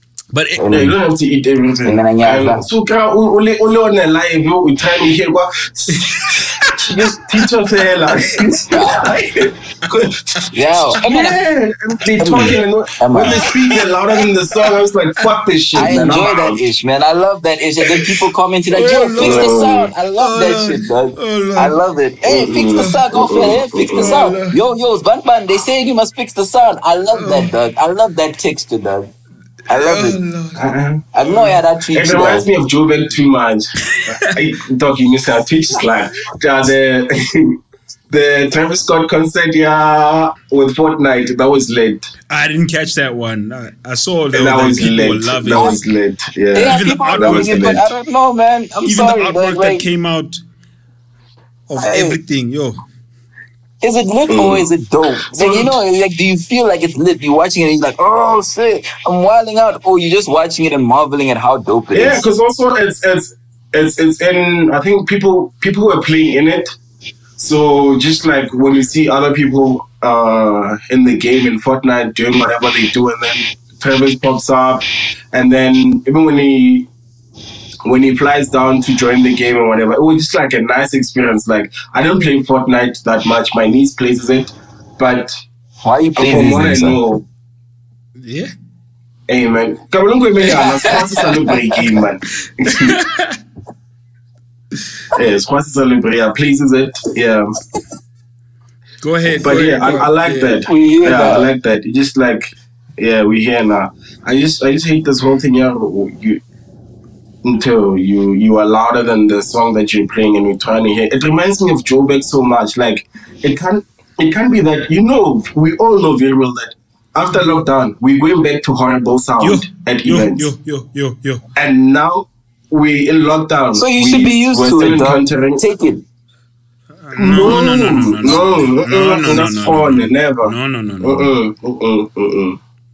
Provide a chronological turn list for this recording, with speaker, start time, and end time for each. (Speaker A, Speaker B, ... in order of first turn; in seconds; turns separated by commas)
Speaker A: 0.3-0.7, Speaker B: 0.6-1.0, Speaker C: 0.7-16.6, Speaker B: 1.8-2.6, Speaker A: 5.9-7.5, Speaker A: 8.0-8.5, Speaker B: 8.7-9.1, Speaker B: 10.5-11.4, Speaker B: 12.2-13.4, Speaker A: 13.3-13.8, Speaker B: 15.7-29.1, Speaker A: 18.7-21.8, Speaker C: 19.2-19.9, Speaker C: 22.2-24.3, Speaker A: 23.9-24.6, Speaker A: 27.1-27.5, Speaker B: 29.7-30.2, Speaker A: 29.7-30.7, Speaker C: 30.6-31.1, Speaker B: 31.1-32.5, Speaker A: 31.2-31.6, Speaker C: 31.9-37.6, Speaker A: 33.9-34.3, Speaker C: 38.1-42.1, Speaker A: 42.3-45.8, Speaker C: 44.3-47.9, Speaker B: 46.5-49.9, Speaker A: 46.6-47.8, Speaker A: 48.9-50.4, Speaker A: 51.7-52.8, Speaker B: 51.8-52.2, Speaker B: 53.8-62.2, Speaker C: 54.3-54.7, Speaker C: 55.3-55.8, Speaker C: 61.9-66.7, Speaker C: 67.4-76.9, Speaker C: 77.8-85.3, Speaker B: 85.8-87.0, Speaker C: 86.2-87.2, Speaker A: 88.2-88.5, Speaker C: 89.3-93.0, Speaker A: 92.7-93.4, Speaker C: 95.1-97.6, Speaker A: 99.0-100.7, Speaker C: 99.3-106.4, Speaker B: 100.7-101.5, Speaker C: 107.4-120.5, Speaker A: 119.4-121.4, Speaker C: 121.6-125.7, Speaker B: 123.8-126.0, Speaker A: 127.0-131.3, Speaker C: 127.2-132.6